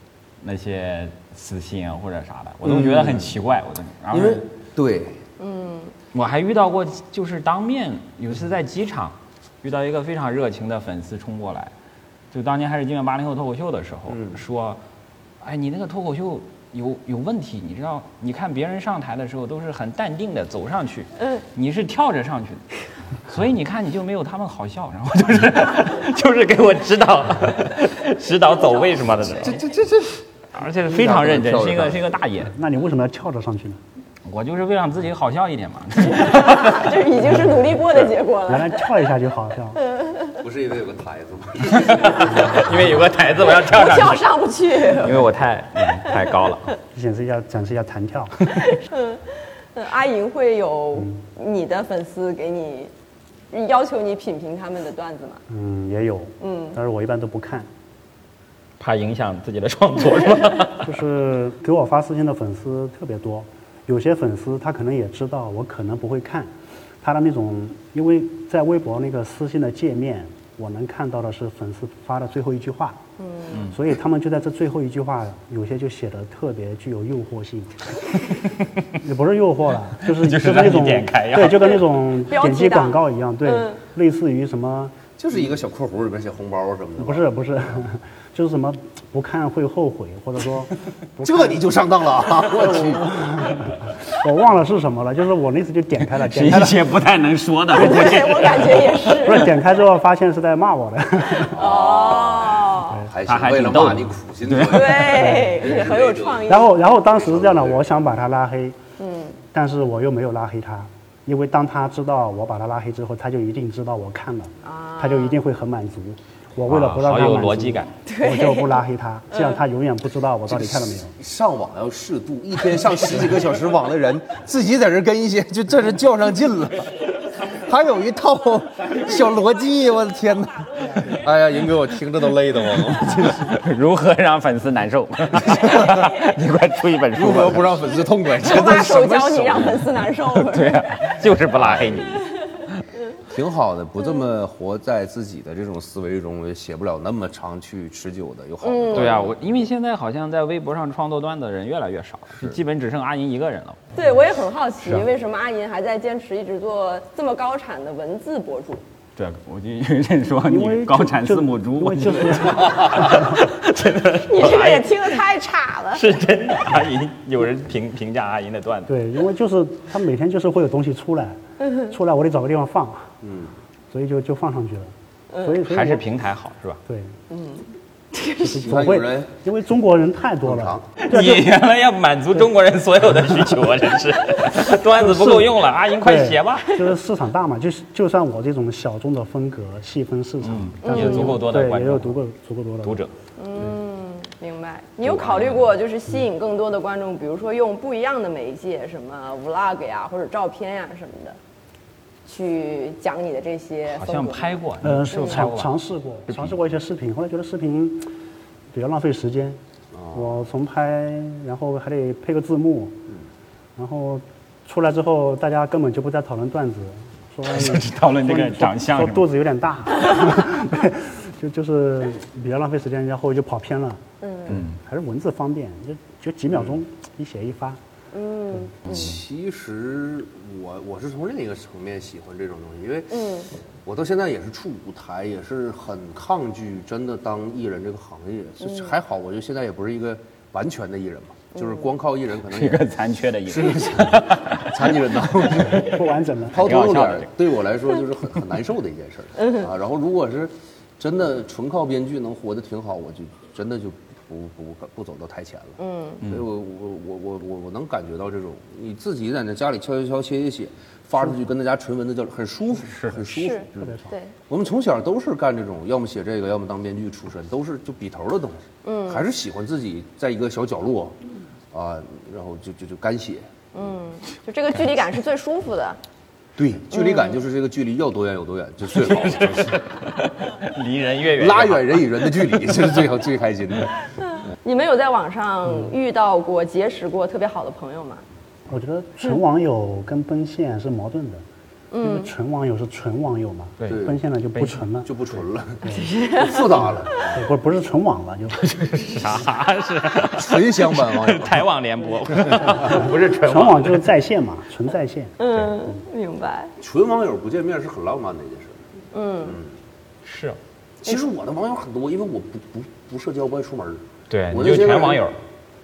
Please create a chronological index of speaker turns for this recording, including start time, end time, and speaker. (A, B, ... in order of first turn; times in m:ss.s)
0:00.4-0:04.4 A
0:02.6-0:03.4 B
0:04.1-0:05.2 B
0:05.4-0:05.9 C
0:06.1-0:11.7 A
0:12.3-0:14.8 A
0:14.1-0:14.4 B
0:15.4-0:22.6 A
0:23.3-0:29.6 A
0:29.4-0:30.2 B
0:30.5-0:32.5 A
0:30.8-0:32.0 B
0:32.5-0:33.8 D
0:34.2-0:37.0 A
0:36.2-0:38.8 C
0:38.5-0:39.8 D
0:39.8-0:40.4 C
0:40.4-0:42.6 B
0:41.7-0:44.3 A
0:43.4-0:45.3 C
0:44.8-0:46.7 A
0:46.9-0:48.4 D
0:48.5-0:52.9 C
0:53.5-0:55.4 C
0:55.5-0:57.7 D
0:56.4-0:56.8 C
0:58.8-1:00.9 A
1:00.8-1:06.5 D
1:07.0-1:13.0 D
1:13.2-1:13.6 C
1:13.6-1:18.0 D
1:18.9-1:24.9 D
1:20.1-1:21.8 A
1:22.2-1:23.8 C
1:25.2-1:27.3 B
1:27.0-1:31.7 D
1:31.2-1:33.4 B
1:32.6-1:36.8 D
1:36.2-1:39.3 A
1:37.7-1:39.5 C
1:37.8-1:38.2 D
1:39.2-1:41.6 D
1:41.5-1:46.5 B
1:41.5-1:43.0 C
1:43.2-1:45.4 A
1:44.6-1:46.8 C
1:45.1-1:45.6 D
1:46.5-1:48.8 D
1:47.1-1:47.9 B
1:49.0-1:49.4 C
1:49.5-2:01.1 D
1:54.6-1:55.4 C
1:56.7-1:57.9 A
1:58.0-1:58.8 C
2:00.5-2:13.5 B
2:13.1-2:17.8 A
2:15.5-2:16.1 B
2:17.1-2:20.0 B
2:18.4-2:20.8 C
2:20.3-2:22.8 A
2:21.5-2:22.0 B
2:23.2-2:29.3 B
2:28.6-2:29.3 C
2:28.9-2:33.8 A
2:33.9-2:38.8 C
2:39.2-2:45.2 A
2:40.5-2:43.4 D
2:44.2-2:46.0 C
2:45.9-2:48.9 A
2:48.9-2:53.1 D
2:53.2-2:53.5 B
2:53.9-2:56.0 D
2:55.7-2:56.8 A
2:56.8-2:57.1 D
2:57.3-2:58.6 C
2:58.4-3:01.5 D
2:58.5-2:59.3 B
3:00.4-3:00.8 B
3:01.0-3:06.8 A
3:04.9-3:13.0 D
3:10.4-3:12.2 A
3:10.8-3:11.4 C
3:12.8-3:13.1 A
3:13.4-3:21.4 C
3:15.0-3:15.7 A
3:22.2-3:24.5 C
3:23.9-3:25.7 A
3:24.8-3:28.1 D
3:25.1-3:25.4 C
3:26.3-3:26.5 A
3:28.7-3:29.6 D
3:29.9-3:30.3 B
3:30.1-3:33.0 D
3:33.8-3:47.8 D
3:37.5-3:39.3 A
3:44.2-3:44.6 C
3:44.5-3:44.7 A
3:48.1-3:49.1 C
3:48.9-3:53.3 B
3:53.1-3:53.5 C
3:53.8-4:02.9 B
3:58.6-3:58.9 C
4:01.5-4:01.8 C
4:02.5-4:05.0 A
4:03.4-4:24.0 B
4:05.6-4:06.6 D
4:06.5-4:07.3 A
4:09.4-4:09.6 C
4:15.8-4:16.2 C
4:22.9-4:23.2 A
4:23.3-4:24.3 C
4:23.8-4:24.1 D
4:24.5-4:31.2 B
4:28.8-4:29.2 C
4:31.7-4:33.5 B
4:33.7-4:36.0 C
4:36.6-4:39.8 B
4:36.9-4:37.4 C
4:38.9-4:42.8 A
4:41.4-4:43.9 B
4:44.6-4:48.2 C
4:48.7-4:51.4 D
4:51.9-4:52.3 C
4:52.0-4:55.1 D
4:53.8-4:54.8 A
4:53.9-4:54.2 B
4:55.0-4:57.3 B
4:55.8-4:56.1 D
4:55.9-4:57.3 C
4:57.3-4:58.6 D
4:58.6-5:04.1 A
5:00.2-5:01.6 B
5:02.7-5:05.4 D
5:05.4-5:06.7 C
5:06.8-5:08.9 B
5:09.1-5:09.6 C
5:09.4-5:09.7 B
5:10.2-5:10.6 A
5:11.0-5:15.2 B
5:14.3-5:15.3 A